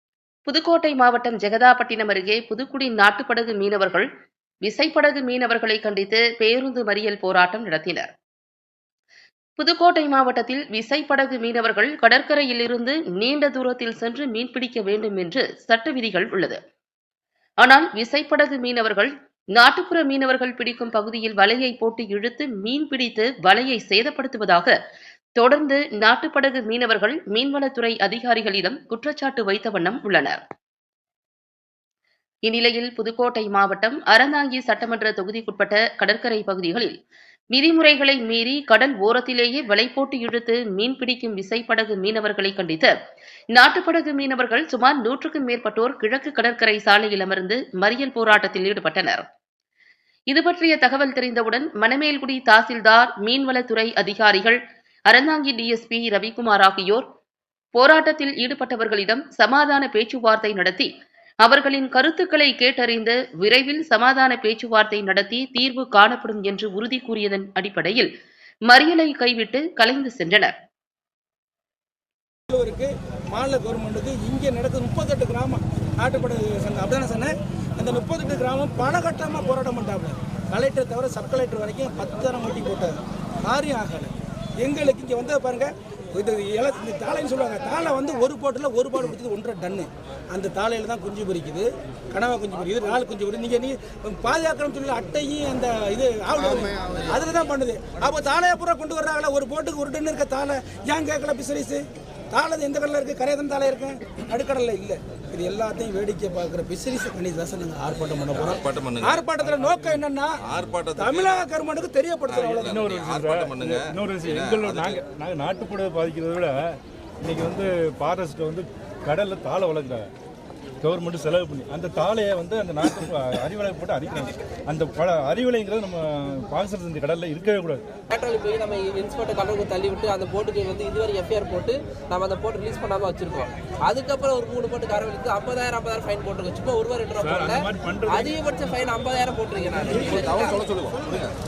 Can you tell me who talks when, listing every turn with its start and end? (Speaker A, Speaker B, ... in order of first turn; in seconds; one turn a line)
Speaker A: 0.5-4.1
Speaker A: 4.6-8.1
Speaker A: 9.6-16.6
Speaker A: 17.6-24.7
Speaker A: 25.4-30.4
Speaker A: 32.4-36.9
Speaker A: 37.5-42.9
Speaker A: 43.5-49.2
Speaker A: 50.3-57.0
Speaker A: 57.7-60.9
Speaker A: 61.4-68.1
Speaker A: 68.7-70.5
Speaker B: 72.5-110.3
Speaker C: 96.4-97.1
Speaker C: 108.3-109.2
Speaker D: 109.4-110.0
Speaker C: 110.5-111.4
Speaker B: 110.9-112.8
Speaker C: 112.3-115.0
Speaker D: 112.6-120.1
Speaker D: 120.8-127.8
Speaker E: 128.1-140.7
Speaker D: 137.2-138.4
Speaker C: 139.9-141.3